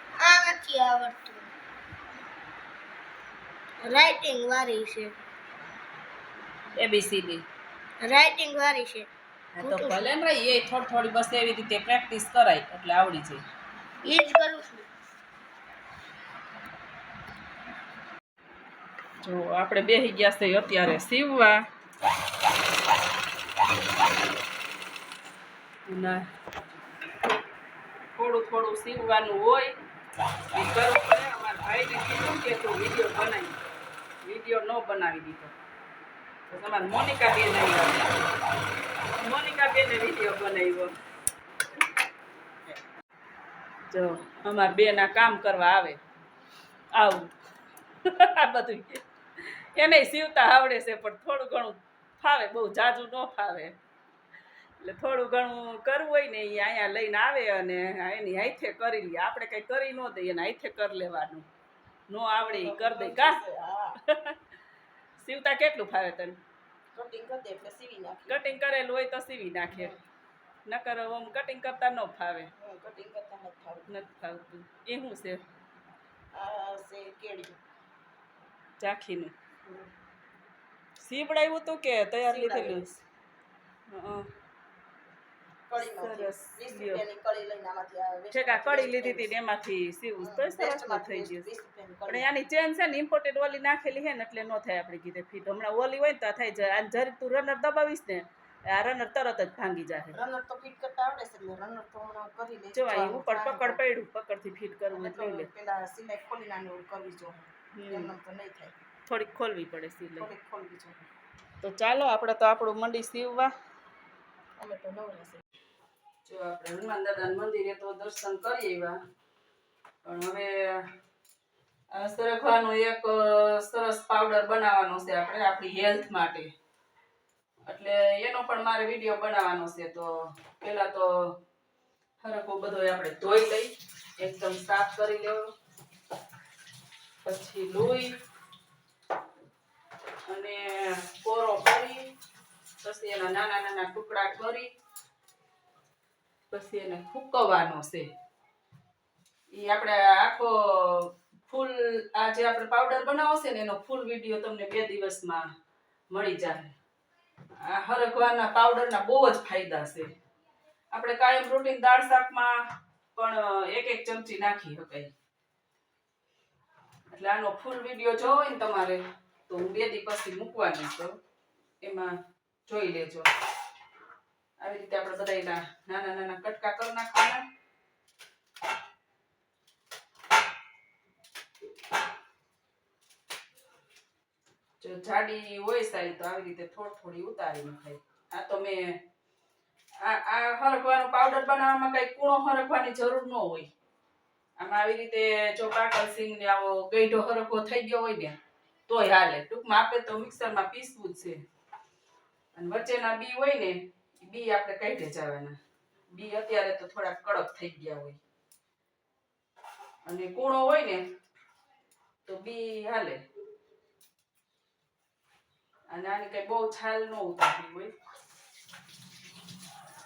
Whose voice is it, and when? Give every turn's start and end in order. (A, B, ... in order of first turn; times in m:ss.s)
0:00.2-0:01.5 A
0:03.8-0:05.2 A
0:06.8-0:07.4 B
0:08.0-0:09.1 A
0:09.6-0:13.4 B
0:09.6-0:10.1 A
0:14.0-0:14.9 A
0:19.2-0:21.6 B
0:25.9-0:26.3 B
0:28.2-0:29.7 B
0:30.5-0:33.6 B
0:34.2-0:35.5 B
0:36.5-0:38.1 B
0:39.2-0:40.9 B
0:43.9-0:46.0 B
0:46.9-0:47.3 B
0:48.0-0:53.8 B
0:54.8-1:01.5 B
1:02.1-1:03.4 B
1:02.4-1:04.0 C
1:04.0-1:04.4 B
1:05.2-1:06.4 B
1:06.9-1:08.4 C
1:08.3-1:10.0 B
1:09.7-1:10.0 C
1:10.7-1:12.5 B
1:12.6-1:13.9 C
1:13.9-1:15.4 B
1:16.3-1:17.6 C
1:18.8-1:19.3 B
1:21.0-1:23.0 B
1:22.2-1:22.9 C
1:23.9-1:24.3 B
1:25.7-1:29.3 C
1:25.8-1:27.0 B
1:28.3-1:31.5 B
1:30.2-1:32.3 C
1:32.1-1:40.2 B
1:40.1-1:43.8 C
1:42.7-1:45.5 B
1:44.9-1:48.8 C
1:47.7-1:48.2 B
1:49.1-1:50.3 B
1:50.2-1:51.1 C
1:51.6-1:53.5 B
1:54.6-1:55.4 C
1:56.3-1:59.0 B
2:00.1-2:00.8 B
2:01.9-2:06.5 B
2:07.7-2:11.3 B
2:12.2-2:15.4 B
2:17.2-2:18.2 B
2:20.3-2:22.1 B
2:22.8-2:24.7 B
2:26.5-2:28.1 B
2:29.5-2:35.5 B
2:36.1-2:36.8 B
2:37.6-2:40.1 B
2:40.9-2:42.5 B
2:43.2-2:45.1 B
2:47.1-2:51.2 B
2:51.8-2:52.2 B
2:52.7-2:53.3 B
2:54.6-2:57.4 B
3:04.8-3:09.0 B
3:10.0-3:13.7 B
3:14.6-3:18.4 B
3:18.9-3:21.4 B
3:22.6-3:25.6 B
3:26.1-3:28.2 B
3:30.1-3:31.0 B
3:32.3-3:33.2 B
3:35.9-3:37.9 B